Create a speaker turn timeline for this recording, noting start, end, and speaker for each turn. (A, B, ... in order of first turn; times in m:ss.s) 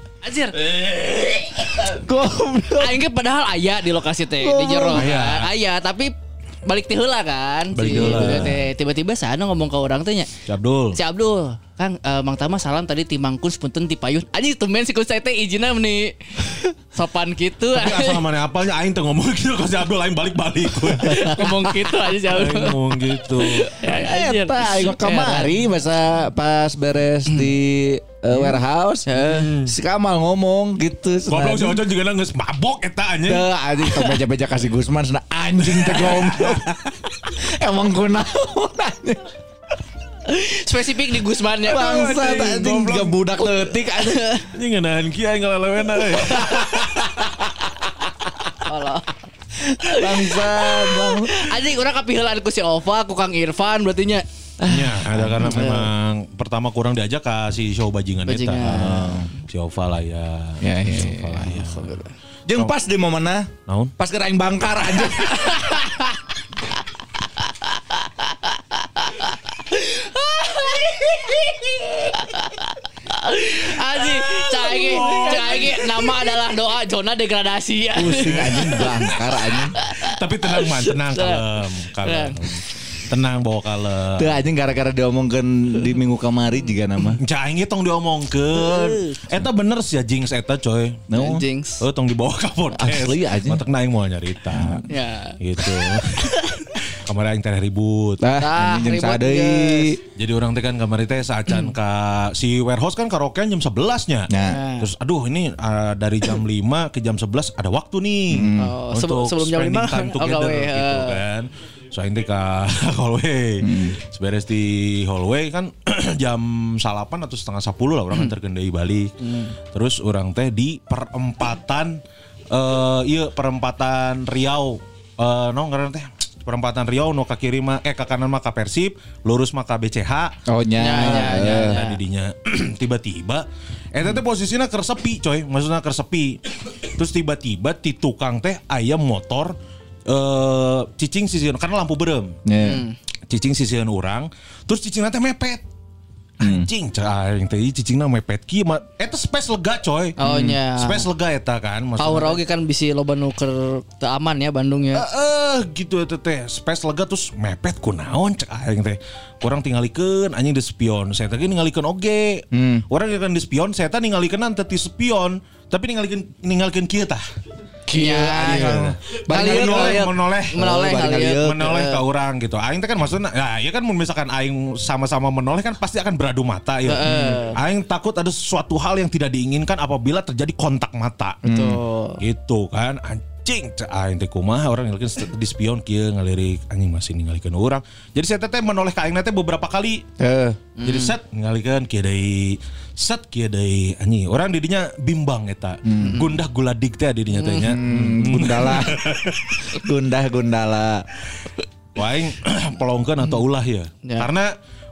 0:00.2-0:00.6 A
0:00.8-0:03.0 B
0:02.8-0:06.1 A
0:04.4-0:05.1 B
0:04.9-0:05.5 C
0:06.7-0:10.3 A
0:07.8-0:08.6 C
0:07.9-0:08.6 B
0:10.5-0:11.0 C
0:10.9-0:18.2 A
0:17.7-0:21.6 C
0:20.8-0:25.6 A
0:22.1-0:23.7 C
0:23.8-0:31.8 B
0:29.1-0:29.5 A
0:29.2-0:29.7 C
0:31.3-0:33.4 C
0:33.2-0:36.7 B
0:35.6-0:36.9 C
0:37.4-0:39.3 B
0:40.3-0:42.2 A
0:41.6-0:44.2 B
0:41.7-0:43.2 C
0:43.9-0:44.5 A
0:44.5-0:47.3 C
0:46.4-0:47.4 B
0:48.6-0:49.2 A
0:49.7-0:51.5 B
0:49.8-0:54.2 A
0:54.6-0:55.7 B
0:54.6-1:01.9 C
0:55.4-0:55.8 A
0:58.3-0:59.3 A
0:58.7-0:59.3 B
1:00.6-1:01.6 B
1:01.6-1:02.1 A
1:02.5-1:05.8 B
1:03.7-1:03.9 C
1:05.2-1:06.1 A
1:07.4-1:19.1 A
1:14.4-1:16.0 C
1:18.0-1:19.2 C
1:18.1-1:19.7 B
1:19.7-1:21.4 A
1:20.0-1:24.4 C
1:22.0-1:22.6 A
1:24.2-1:27.2 B
1:27.2-1:31.1 C
1:28.5-1:29.2 A
1:31.1-1:31.4 B
1:31.1-1:31.8 A
1:31.8-1:34.8 C
1:32.7-1:33.6 B
1:34.5-1:34.8 B
1:34.9-1:35.4 A
1:35.4-1:38.2 C
1:36.1-1:36.5 A
1:38.2-1:40.0 B
1:38.4-1:39.9 A
1:40.2-1:59.1 C
1:44.3-1:44.6 B
1:44.5-1:44.9 A
1:48.3-1:48.7 B
1:48.6-1:51.2 A
1:53.6-1:54.0 B
1:59.2-1:59.5 A
1:59.7-2:10.3 C
2:10.5-2:11.8 B
2:10.8-2:12.0 A
2:10.9-2:19.5 C
2:20.1-2:22.4 C
2:22.4-2:22.8 B
2:22.6-2:22.9 A
2:23.3-2:25.6 C
2:26.4-2:26.7 B
2:26.4-2:30.2 C
2:30.2-2:31.1 A
2:30.2-2:30.6 B
2:30.8-2:32.4 C
2:32.0-2:35.0 A
2:34.9-2:47.2 C
2:42.5-2:42.8 B
2:47.9-2:52.0 A
2:47.9-2:51.5 B
2:48.4-2:50.7 C
2:51.3-3:01.4 C
2:56.9-2:57.6 A
2:57.0-2:57.4 B
3:01.4-3:02.2 A
3:01.4-3:01.8 B
3:02.2-3:10.0 C
3:10.2-3:10.6 B
3:10.8-3:11.1 A
3:10.8-3:19.7 C
3:15.8-3:16.2 B
3:16.0-3:16.3 A
3:17.3-3:17.8 A
3:17.6-3:19.0 B
3:19.7-3:21.0 B
3:22.0-3:24.5 C